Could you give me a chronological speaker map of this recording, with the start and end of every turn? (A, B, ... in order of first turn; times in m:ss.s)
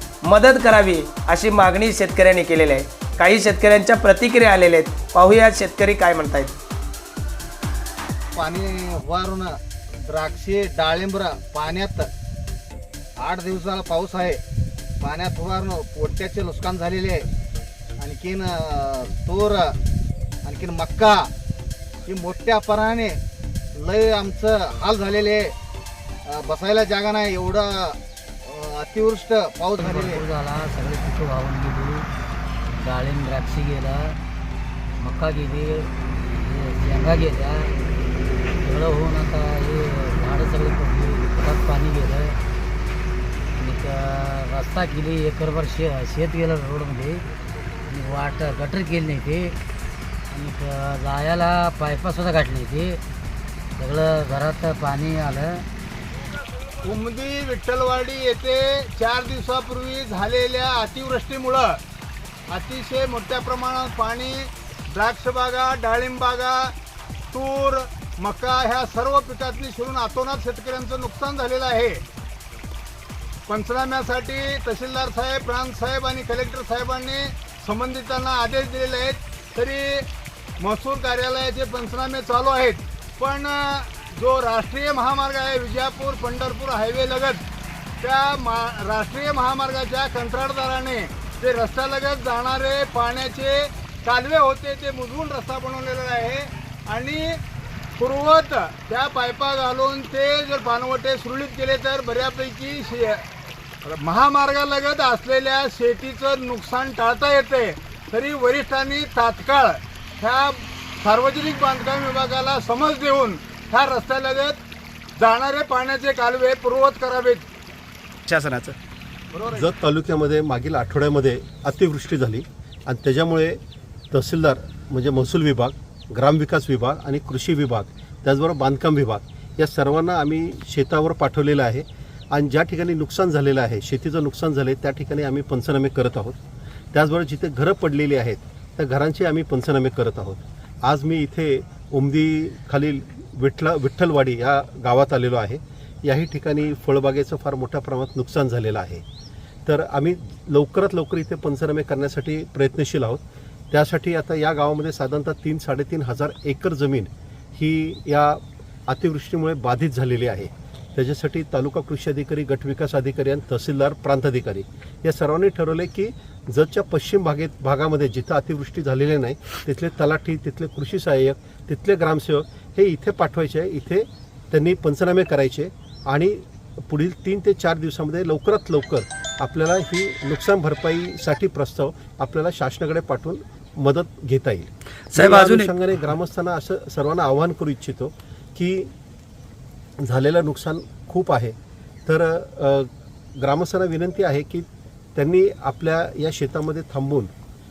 0:00.2-0:06.6 A
0:08.3-0:12.1 B
0:13.2-0:14.4 B
0:15.0-0:17.3 B
0:18.0-0:19.8 B
0:20.4-0:21.3 B
0:22.0-0:23.2 B
0:23.7-0:25.6 B
0:26.2-0:30.2 B
0:29.8-0:32.1 C
0:32.8-0:34.2 C
0:35.0-0:37.7 C
0:38.6-0:42.4 C
0:43.6-0:47.2 C
0:47.9-0:49.6 C
0:50.3-0:53.0 C
0:53.8-0:55.6 C
0:56.8-1:01.8 D
1:02.5-1:06.7 D
1:07.3-1:12.0 D
1:13.5-1:20.1 D
1:20.6-1:27.4 D
1:28.0-1:37.4 D
1:38.0-1:43.2 D
1:43.8-1:54.6 D
1:55.2-1:57.5 D
1:58.3-1:58.7 A
1:59.3-1:59.7 D
1:59.5-2:03.6 E
2:04.1-2:16.4 E
2:16.9-2:29.0 E
2:29.6-3:08.9 E
3:05.1-3:05.7 A
3:10.0-3:11.5 E
3:12.0-3:17.3 E